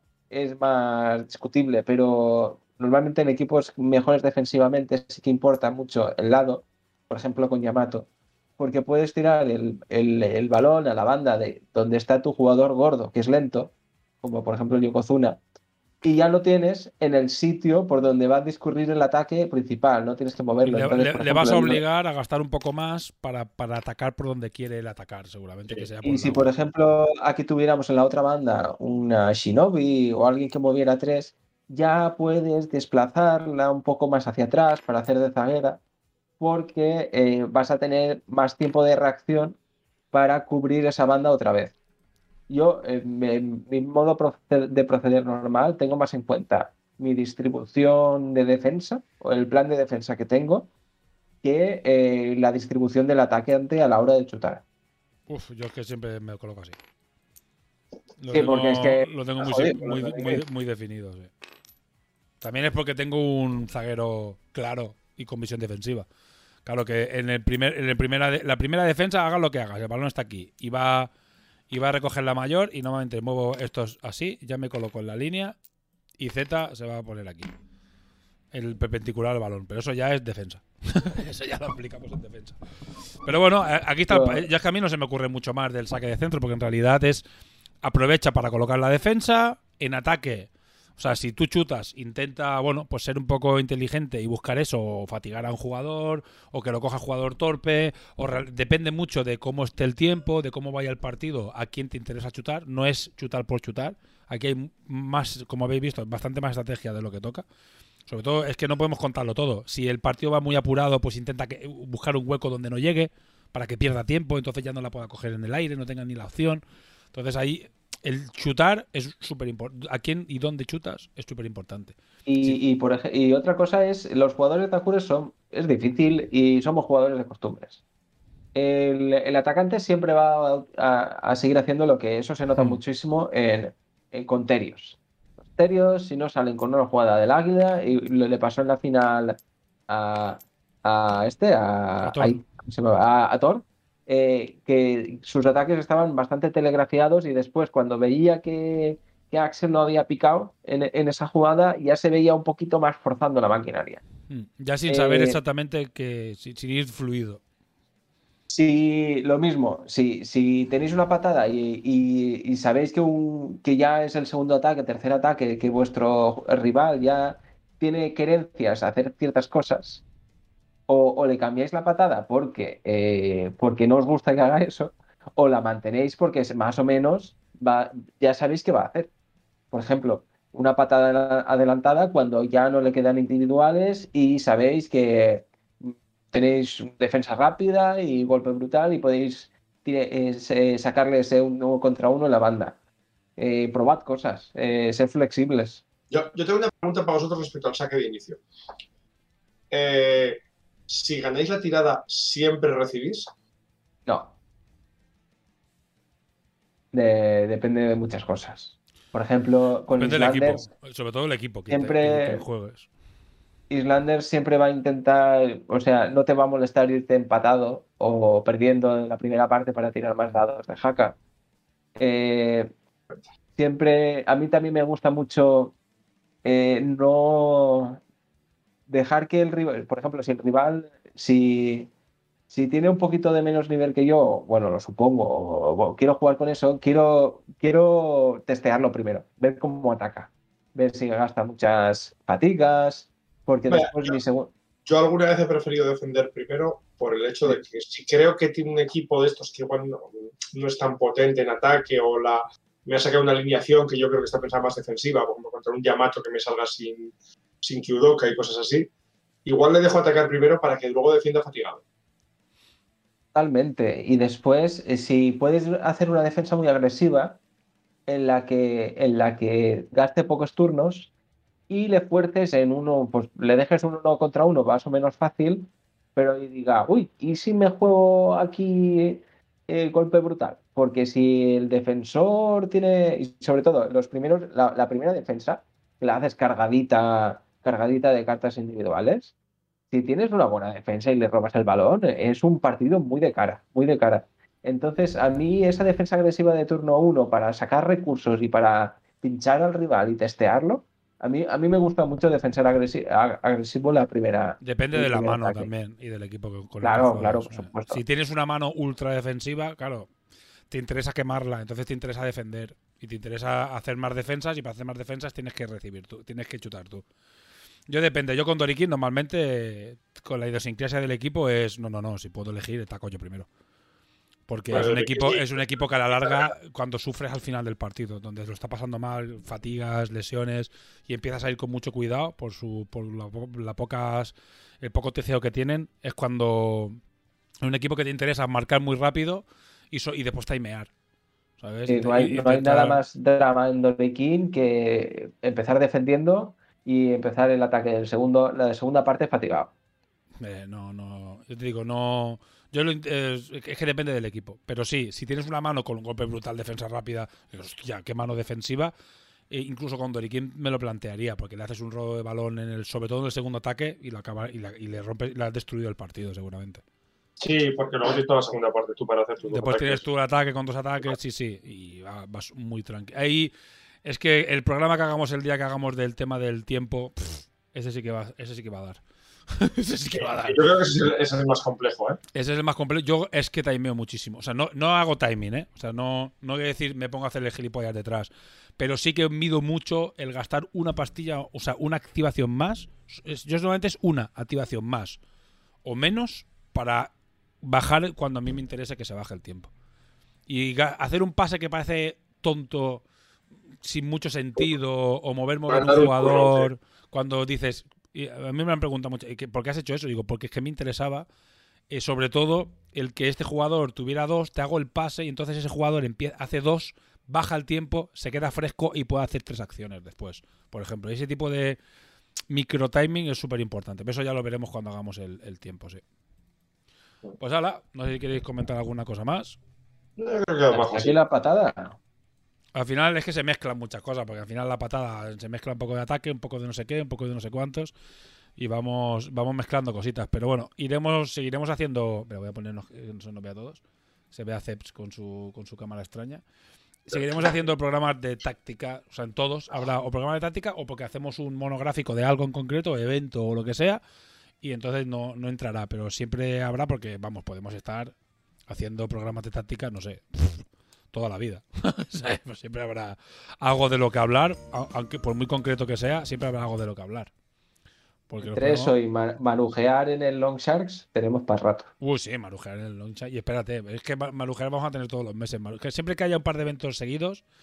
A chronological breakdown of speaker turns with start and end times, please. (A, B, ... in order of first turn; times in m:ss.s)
0:00.3-0:08.1 A
0:08.6-0:15.4 A
0:16.0-0:21.8 A
0:20.6-0:26.5 B
0:26.0-0:35.8 A
0:36.4-0:39.6 A
0:40.1-0:41.7 A
0:42.5-0:50.7 A
0:51.4-0:54.6 A
0:55.3-0:56.8 B
0:58.2-1:01.3 B
0:58.3-1:00.4 A
1:02.4-1:06.1 B
1:06.6-1:11.1 B
1:11.7-1:15.6 B
1:16.2-1:17.5 B
1:18.5-1:22.6 B
1:23.2-1:27.2 B
1:24.1-1:24.5 A
1:27.8-1:47.4 B
1:48.1-1:56.6 B
1:57.1-2:02.6 B
2:02.2-2:07.8 A
2:08.5-2:15.0 A
2:12.6-2:12.8 B
2:15.5-2:34.0 A
2:22.0-2:22.4 B
2:34.3-2:37.4 B
2:34.9-2:35.4 A
2:38.5-2:50.0 A
2:50.9-2:59.1 A
2:59.7-3:12.8 A
3:13.4-3:15.8 A
3:16.1-3:18.4 C
3:19.7-3:23.3 C
3:24.1-3:24.3 A
3:26.9-3:30.7 A
3:30.0-3:32.9 B
3:31.7-3:32.4 A
3:33.7-3:41.2 A
3:42.0-3:42.7 A
3:43.6-3:45.8 A
3:46.4-3:48.0 A
3:48.9-3:51.9 A
3:52.5-4:04.5 A
4:03.7-4:04.2 C
4:04.8-4:18.9 C
4:19.4-4:21.8 C
4:23.3-4:27.4 A
4:28.1-4:31.1 A
4:31.7-4:49.3 A
4:49.9-5:05.7 A
5:04.6-5:10.1 B
5:06.8-5:08.0 A
5:10.7-5:17.0 B
5:17.9-5:23.5 B
5:24.5-5:37.0 B
5:24.7-5:25.6 C
5:26.2-5:26.5 C
5:37.6-5:40.9 B
5:41.6-5:43.0 B
5:41.9-5:49.7 A
5:50.4-5:58.9 B
5:59.5-6:06.8 B
6:07.4-6:10.0 C
6:09.5-6:20.6 B
6:20.1-6:22.2 C
6:22.3-6:35.2 B
6:35.8-6:39.7 B
6:40.5-6:43.0 B
6:43.8-6:51.3 B
6:45.7-6:46.7 C
6:51.9-7:01.8 B
7:02.5-7:06.0 B
7:07.4-7:09.6 B
7:10.2-7:11.2 C
7:10.7-7:12.0 A
7:12.7-7:17.9 B
7:18.6-7:23.8 B
7:24.3-7:26.4 B
7:27.0-7:34.0 B
7:34.6-7:38.1 B
7:38.7-7:47.3 B
7:48.3-7:48.9 B
7:48.4-7:51.9 A
7:52.0-7:57.4 B